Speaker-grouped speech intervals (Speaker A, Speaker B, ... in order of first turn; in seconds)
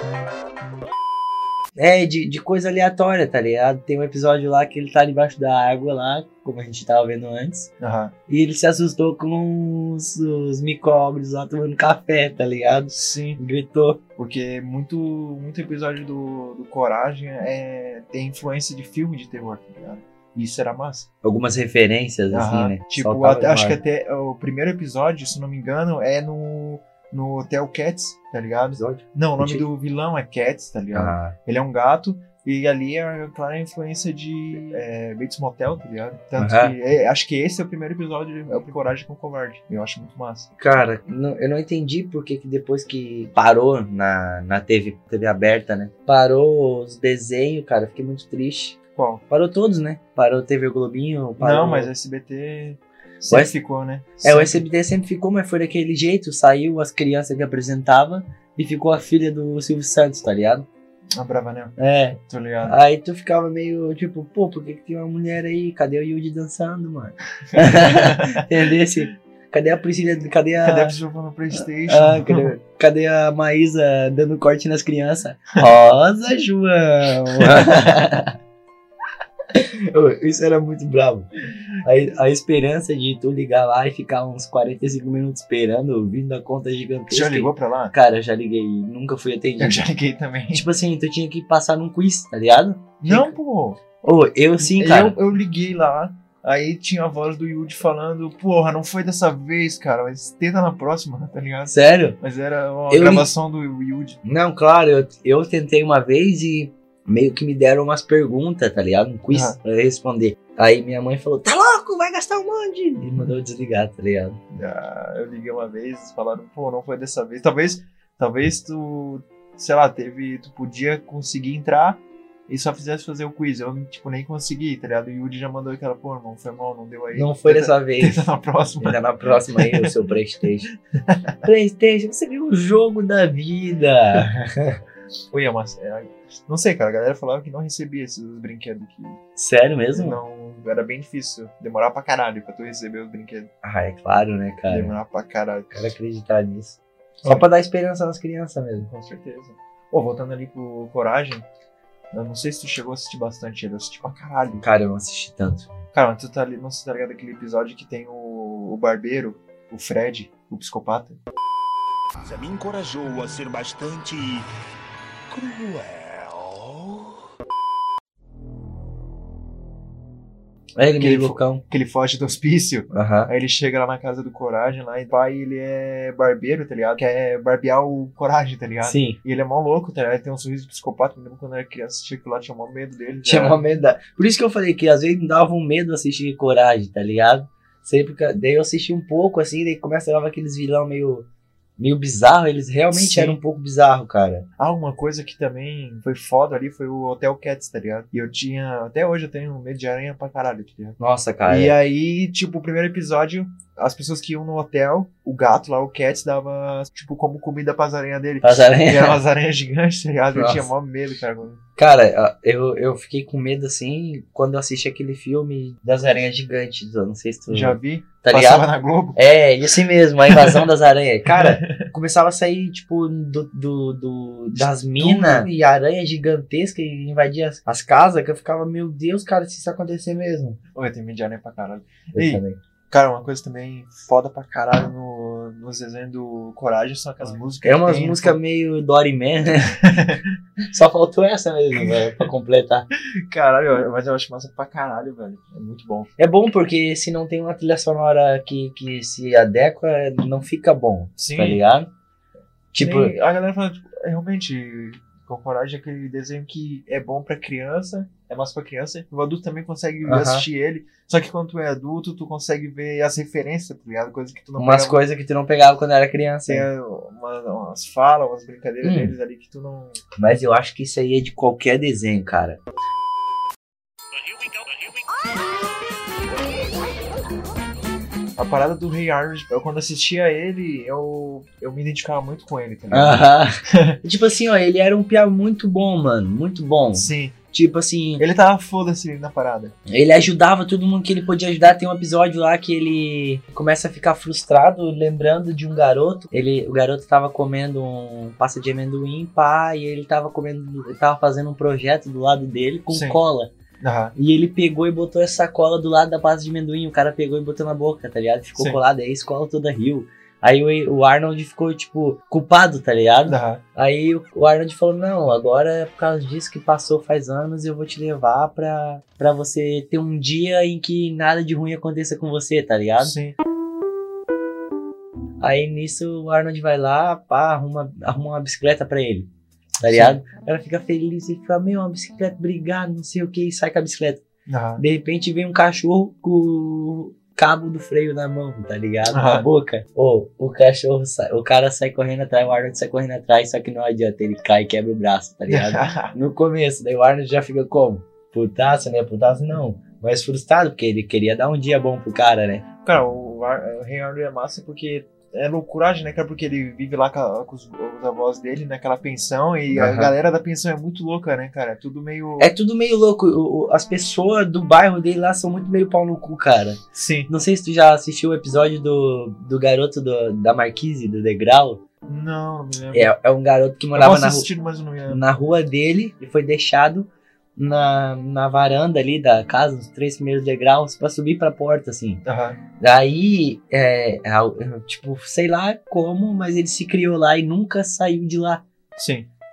Speaker A: 1.8-7.7, 8.3-14.0, 21.2-23.8, 28.8-29.7, 30.9-31.3, 36.4-36.7, 40.6-48.8, 49.3-51.9, 54.2-60.7, 61.8-71.0, 71.9-78.3, 79.5-81.3, 81.8-89.8, 90.5-93.3, 94.0-95.2, 101.7-102.2, 102.9-103.3, 104.2-114.4, 127.1-128.3, 128.8-130.7, 131.4-134.8, 139.4-140.2, 143.6-144.9, 145.7-148.9, 154.6-155.8, 170.8-171.6, 172.9-173.3, 178.8-179.2, 183.2-191.3, 191.8-194.5, 201.0-201.8, 208.4-209.2, 210.3-210.7, 211.8-230.6, 232.2-232.6, 237.6-239.8, 240.7-242.9, 246.2-251.9, 252.7-253.1, 260.0-260.5, 264.6-266.7, 268.8-269.1, 270.2-272.6, 282.9-288.2, 289.9-303.5, 304.1-323.1, 325.4-329.3, 329.8-334.2, 334.8-352.6, 359.7-360.1, 362.4-371.8, 372.9-374.5, 375.1-382.2, 382.8-388.6
Speaker B: 7.8-8.1, 12.9-13.4, 14.2-21.1, 22.3-40.5, 49.0-49.2, 51.4-54.6, 61.1-62.8, 67.5-68.4, 70.6-72.5, 87.1-87.9, 89.6-90.7, 93.0-93.8, 94.6-104.2, 109.3-109.6, 114.5-129.0, 129.5-129.9, 130.9-131.4, 135.3-139.2, 139.9-143.5, 144.7-145.8, 148.8-151.4, 152.1-154.7, 155.9-161.2, 171.0-183.6, 192.9-193.4, 194.6-211.6, 217.5-219.2, 220.3-220.7, 221.3-221.9, 224.6-225.5, 230.7-238.4, 239.8-240.2, 243.2-246.1, 251.2-251.6, 252.8-265.0, 266.4-270.0, 278.4-284.0, 286.9-287.4, 288.2-289.8, 302.9-303.2, 303.8-304.1, 308.6-308.8, 313.3-313.6, 323.0-323.4, 329.8-330.2, 334.5-334.8, 339.1-339.5, 345.5-346.1, 352.8-362.5, 366.9-367.3, 372.1-373.1, 373.9-375.2, 382.2-382.6, 389.0-389.3
Speaker C: 162.2-164.5, 165.3-167.2